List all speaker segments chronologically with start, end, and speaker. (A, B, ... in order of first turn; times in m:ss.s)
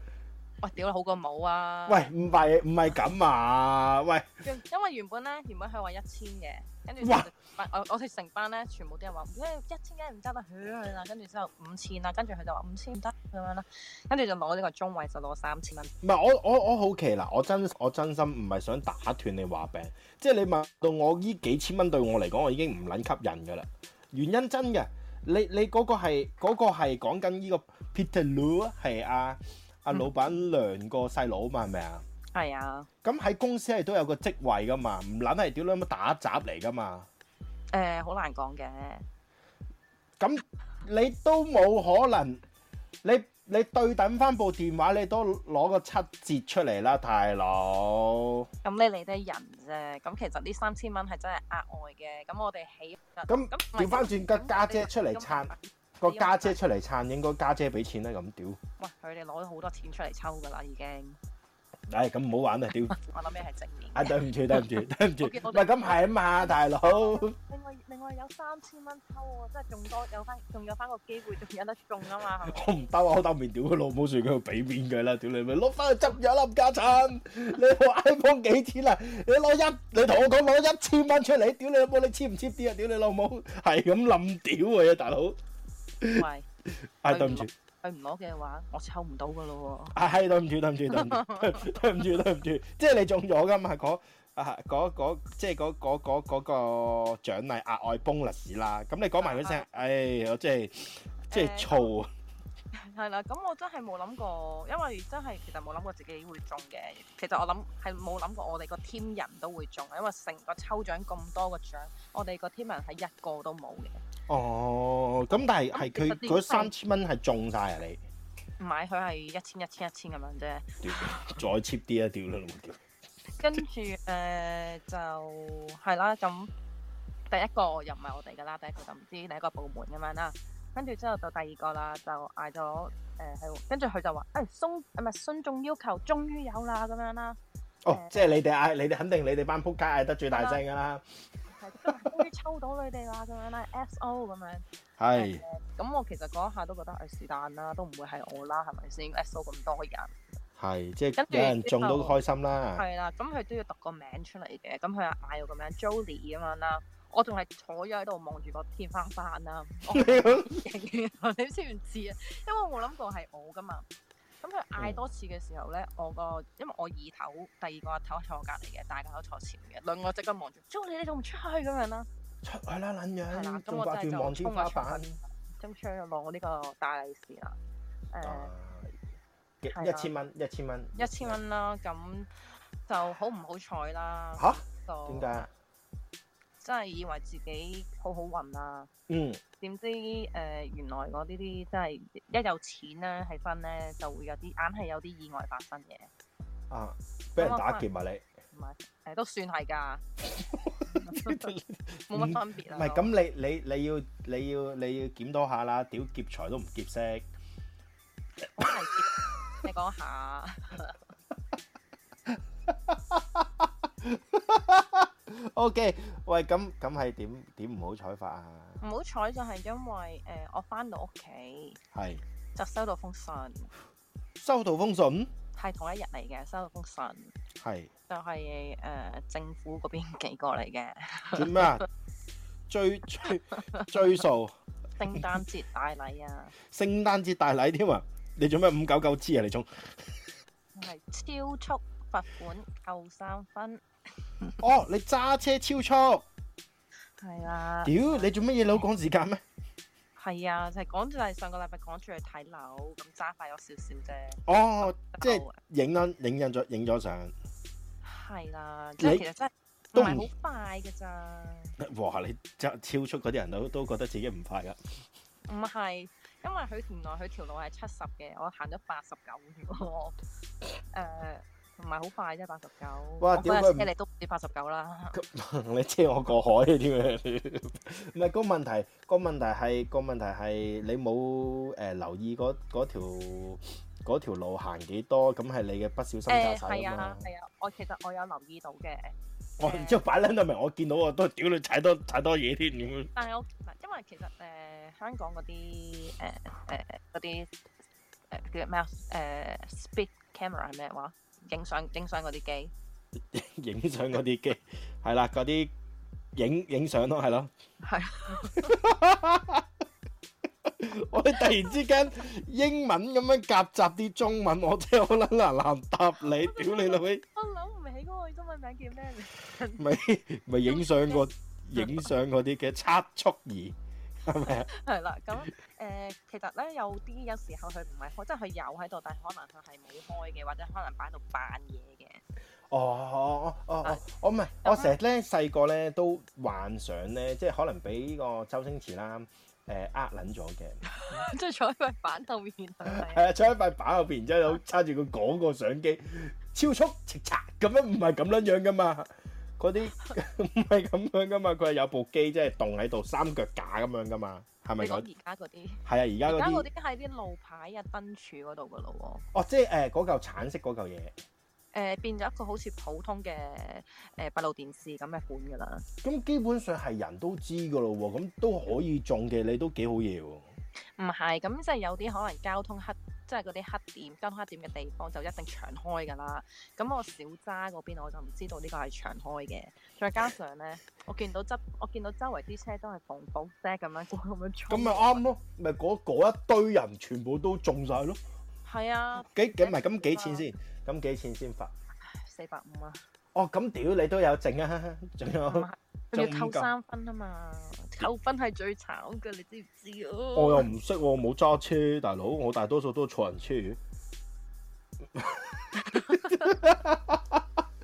0:00.6-0:02.1 A
0:01.9-0:04.4 B
0:04.4-0:15.9 A
0:07.0-0:07.3 B
0:16.0-0:32.0 B
0:32.3-0:32.9 A
0:33.0-0:37.1 B
0:37.7-0:39.0 A
0:40.2-0:42.4 B
0:43.0-0:48.5 B
0:48.6-0:56.6 A
0:53.3-0:58.6 B
0:58.8-1:01.2 A
1:01.9-1:03.0 B
1:02.9-1:04.6 A
1:03.9-1:07.3 B
1:05.2-1:12.6 A
1:12.5-1:25.4 B
1:26.0-1:26.2 B
1:26.1-1:26.4 A
1:27.0-1:27.5 B
1:27.1-1:30.0 A
1:29.9-1:42.1 B
1:30.9-1:31.8 A
1:39.2-1:39.8 A
1:41.3-1:41.9 A
1:42.7-1:54.0 A
1:54.3-1:58.0 B
1:55.3-1:56.7 A
1:58.6-2:01.4 A
2:00.8-2:02.8 B
2:03.4-2:06.5 A
2:07.3-2:17.4 A
2:17.8-2:21.0 B
2:17.9-2:18.4 A
2:20.3-2:20.6 A
2:21.6-2:30.1 A
2:21.8-2:22.2 B
2:25.0-2:25.4 B
2:30.6-2:32.8 B
2:31.2-2:32.2 A
2:32.7-2:43.8 A
2:39.9-2:40.5 B
2:44.4-2:52.1 A
2:52.4-2:55.2 B
2:53.3-2:57.6 A
2:58.1-2:58.5 A
2:58.2-2:59.0 B
2:59.6-3:01.4 B
2:59.7-3:00.1 A
3:00.9-3:05.5 A
3:04.4-3:05.5 B
3:06.6-3:08.9 A
3:09.1-3:09.4 B
3:09.6-3:16.1 A
3:16.7-3:18.2 B
3:17.4-3:17.8 A
3:18.5-3:20.0 A
3:20.3-3:27.3 B
3:20.9-3:21.5 A
3:22.1-3:23.1 A
3:28.6-3:31.0 A
3:32.3-3:38.8 B
3:38.8-3:41.8 A
3:41.9-3:42.2 B
3:42.5-3:43.7 A
3:44.4-3:45.3 B
3:45.5-3:47.3 A
3:47.6-3:47.9 B
3:48.1-3:51.8 A
3:51.3-3:51.8 B
3:52.7-3:54.6 B
3:55.0-3:56.5 A
3:56.7-4:00.2 B
4:00.7-4:03.8 A
4:04.6-4:06.2 B
4:07.2-4:08.3 A
4:07.8-4:09.4 B
4:10.2-4:15.6 A
4:14.4-4:17.3 B
4:18.0-4:21.8 A
4:19.9-4:20.3 B
4:21.8-4:24.8 B
4:25.5-4:30.2 A
4:30.9-4:35.2 A
4:33.2-4:33.9 B
4:35.1-4:47.3 B
4:46.3-4:50.0 A
4:49.6-4:53.1 B
4:53.2-4:57.5 A
4:58.3-5:02.7 A
5:03.3-5:05.7 B
5:06.3-5:07.5 B
5:07.8-5:08.7 A
5:08.4-5:09.6 B
5:10.6-5:17.2 B
5:16.3-5:19.9 A
5:19.8-5:24.7 B
5:20.6-5:22.1 A
5:24.5-5:32.2 A
5:32.7-5:41.2 B
5:34.6-5:35.0 A
5:40.9-5:43.2 A
5:42.8-5:55.0 B
5:54.8-5:59.2 A
5:55.8-5:56.7 B
5:59.3-6:01.2 B
6:01.7-6:05.8 A
6:06.0-6:10.4 B
6:11.0-6:25.2 A
6:24.7-6:28.2 B
6:28.6-6:30.4 A
6:29.2-6:31.7 B
6:32.0-6:33.0 A
6:33.3-6:36.7 B
6:35.5-6:40.7 A
6:40.3-6:43.8 B
6:45.1-6:47.4 B
6:45.9-6:46.5 A